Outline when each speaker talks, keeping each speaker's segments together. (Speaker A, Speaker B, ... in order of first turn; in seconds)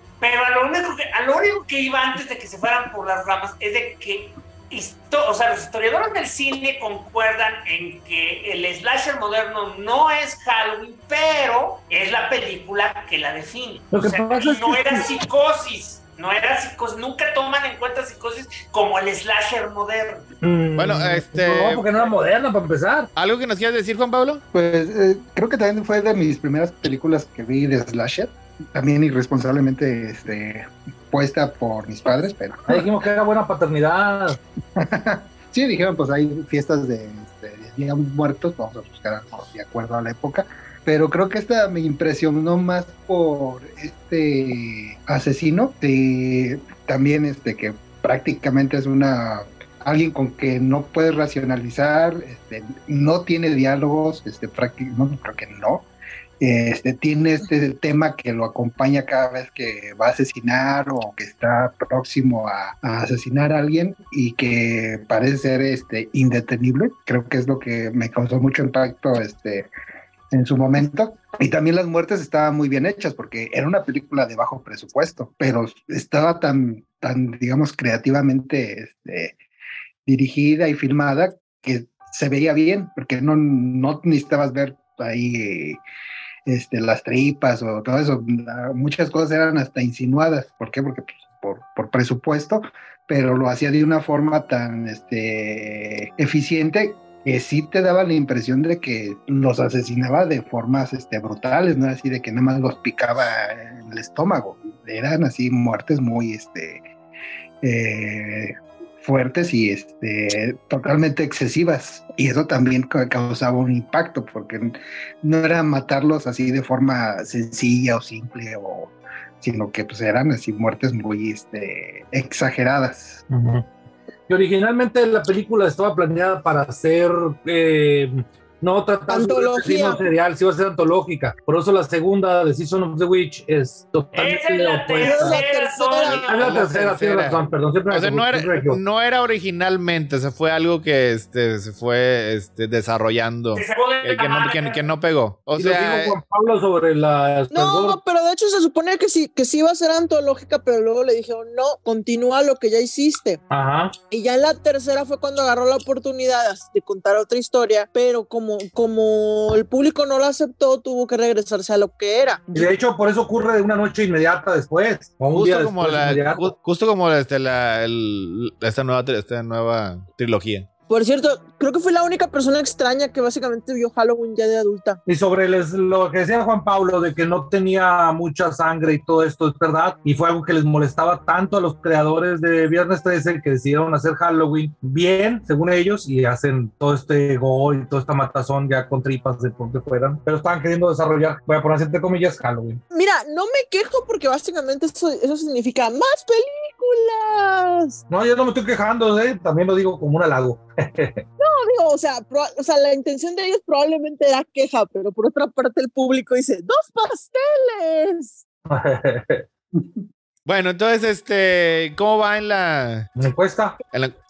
Speaker A: 0.2-20.3, 134.1-136.6, 143.5-144.8
Speaker B: 13.9-15.1, 20.4-23.1, 32.7-34.4, 123.3-123.7, 124.3-135.4, 136.2-138.8, 145.6-148.0, 153.5-153.9, 162.5-166.5, 175.1-192.8, 198.1-201.2, 208.7-209.4, 213.2-213.8
Speaker C: 20.8-21.9, 23.2-24.4, 136.0-146.2, 165.3-170.7, 210.5-213.1
Speaker D: 24.5-32.9, 34.8-55.9, 56.4-69.7, 70.3-79.4, 80.1-85.8, 86.5-106.8, 107.6-123.2
Speaker E: 129.1-130.0, 135.0-136.3, 147.5-153.4, 154.1-162.7, 170.9-175.0, 192.9-198.0, 201.4-208.4